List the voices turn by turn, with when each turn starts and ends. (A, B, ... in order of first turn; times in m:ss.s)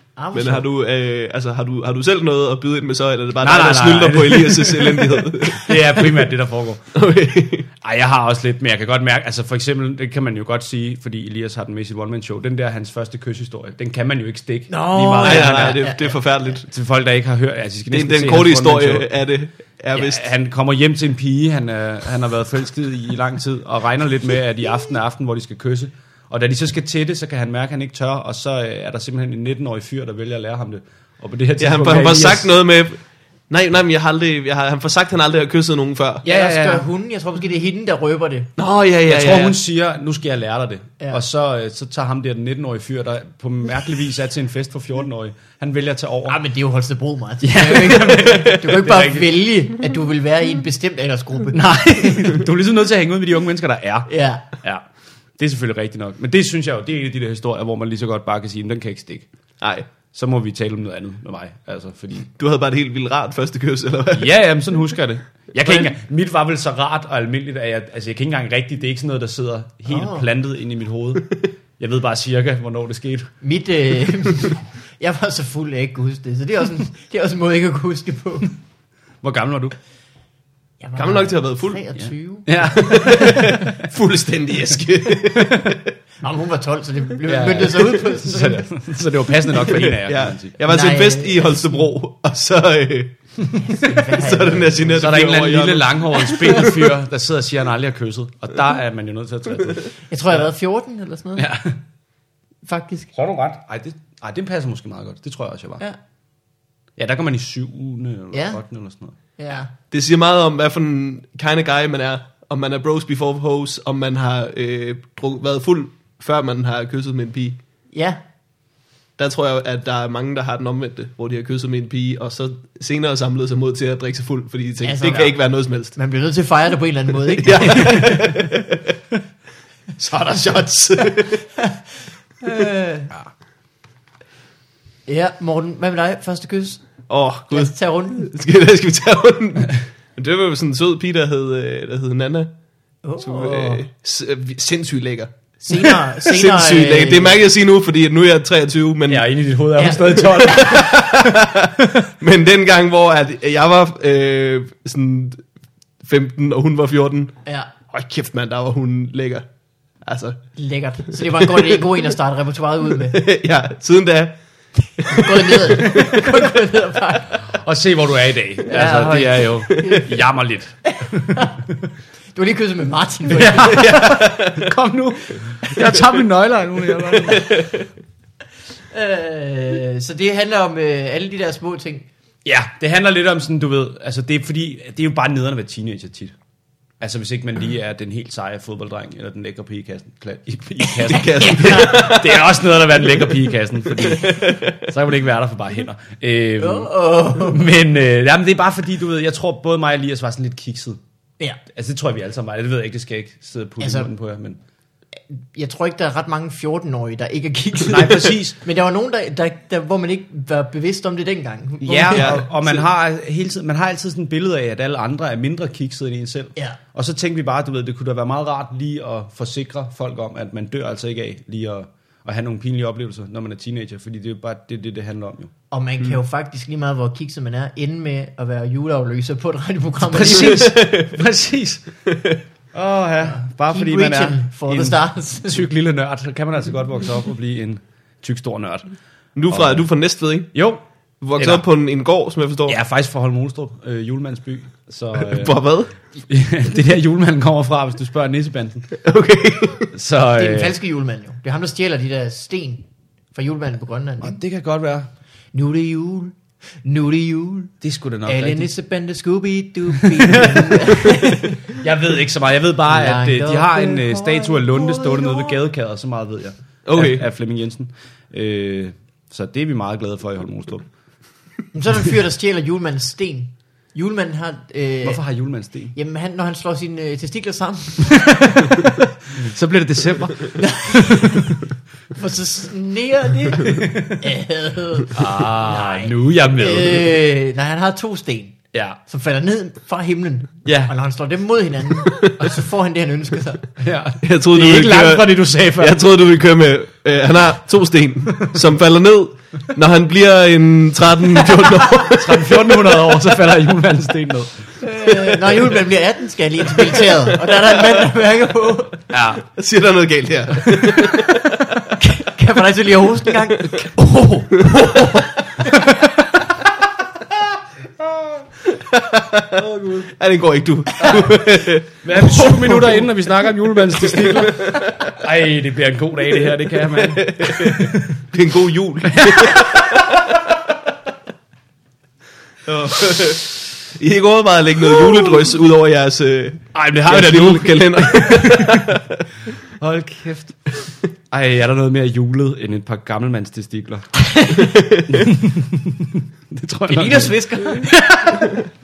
0:00.2-0:00.7 A
0:00.3-0:06.2 B
0:03.4-0:06.9 C
0:06.9-0:07.7 B
0:07.8-0:15.8 C
0:14.7-0:16.2 A
0:15.2-0:16.7 B
0:16.7-0:19.0 C
0:17.9-0:20.3 B
0:19.9-0:32.5 C
0:31.6-0:36.2 B
0:36.2-0:36.9 C
0:36.2-0:38.5 A
0:38.6-0:39.6 B
0:39.0-0:46.4 C
0:46.3-0:51.9 A
0:47.4-0:49.4 C
0:48.2-0:48.5 B
0:51.5-0:54.9 C
0:54.1-0:54.4 A
0:55.4-0:59.3 C
0:59.6-0:59.9 B
1:00.1-1:02.3 C
1:02.3-1:04.3 B
1:04.1-1:13.3 C
1:09.9-1:10.2 A
1:13.4-1:18.5 A
1:19.2-1:19.8 C
1:20.8-1:23.5 A
1:21.0-1:21.8 B
1:22.0-1:23.4 C
1:22.8-1:25.9 B
1:25.4-1:25.6 C
1:26.2-1:28.7 A
1:27.3-1:30.5 C
1:29.7-1:33.2 B
1:30.6-1:31.9 A
1:33.6-1:35.2 A
1:34.1-1:36.9 B
1:34.9-1:40.5 C
1:40.1-1:41.5 A
1:41.4-1:41.8 C
1:42.6-1:43.1 A
1:43.1-1:45.8 C
1:47.0-1:49.1 C
1:48.3-1:48.6 A
1:49.4-1:49.7 A
1:49.9-1:57.6 B
1:57.9-1:58.2 A
1:59.2-2:06.0 B
2:04.8-2:05.4 A
2:05.9-2:08.2 A
2:07.4-2:08.8 B
2:10.0-2:11.4 B
2:12.4-2:13.1 A
2:15.1-2:16.9 A
2:17.1-2:22.5 B
2:17.5-2:18.3 A
2:23.0-2:23.8 A
2:23.2-2:29.3 B
2:25.6-2:27.4 A
2:29.1-2:32.0 C
2:29.8-2:30.6 A
2:30.0-2:35.4 B
2:36.0-2:37.4 B
2:37.5-2:37.7 A
2:37.9-2:39.5 B
2:40.0-2:40.4 B
2:40.6-2:43.2 A
2:41.2-2:42.0 B
2:43.1-2:44.4 B
2:45.0-2:46.2 B
2:45.1-2:47.4 A
2:47.4-2:51.5 C
2:48.7-2:50.1 A
2:50.9-2:51.6 A
2:52.3-2:53.9 A
2:53.3-2:57.5 C
2:53.6-2:54.7 B
2:57.2-2:57.8 B
2:58.9-3:02.1 A
3:02.4-3:06.4 C
3:07.0-3:21.0 C
3:11.0-3:12.4 B
3:11.2-3:12.1 A
3:14.0-3:14.8 B
3:16.6-3:17.7 A
3:21.7-3:24.6 C
3:23.8-3:24.1 A
3:25.3-3:32.5 A
3:27.9-3:28.6 C
3:31.8-3:45.5 C
3:32.1-3:32.5 B
3:45.7-3:50.7 A
3:50.0-3:51.9 C
3:50.2-3:51.2 B
3:52.1-3:52.4 B
3:52.7-3:58.9 C
3:53.3-3:55.6 A
3:59.4-4:00.5 B
3:59.5-3:59.9 C
4:00.5-4:00.8 C
4:01.2-4:02.8 B
4:01.4-4:01.6 C
4:02.7-4:05.5 C
4:05.2-4:05.9 B
4:06.2-4:09.0 C
4:09.0-4:09.9 B
4:09.9-4:10.8 C
4:10.3-4:14.4 A
4:14.2-4:15.1 C
4:15.5-4:17.7 A
4:17.8-4:18.7 C
4:18.2-4:21.7 A
4:20.4-4:20.8 C
4:21.8-4:30.9 C
4:22.9-4:25.6 A
4:26.8-4:27.2 B
4:31.7-4:35.2 A
4:35.0-4:35.9 C
4:35.9-4:38.8 A
4:39.3-4:41.4 C
4:40.6-4:41.6 A
4:42.1-4:53.6 A
4:43.6-4:44.1 C
4:45.1-4:47.1 C
4:48.7-4:49.0 C
4:50.6-4:50.9 C
4:53.8-4:56.0 C
4:54.2-5:02.6 B
5:02.0-5:04.7 C
5:04.8-5:09.0 A
5:09.1-5:09.4 C
5:09.5-5:11.6 B
5:12.0-5:15.7 A
5:14.0-5:14.5 C
5:14.6-5:15.3 B
5:15.7-5:16.4 C
5:18.0-5:18.4 C
5:18.7-5:21.9 B
5:22.0-5:28.2 C
5:22.2-5:23.0 A
5:24.0-5:25.0 B
5:26.8-5:30.4 B
5:29.2-5:30.1 C
5:32.7-5:39.2 B
5:36.7-5:38.9 C
5:39.8-5:40.6 C
5:41.3-5:44.1 C
5:44.2-5:44.8 A
5:44.6-5:45.2 B
5:45.1-5:48.4 C
5:46.9-5:48.5 A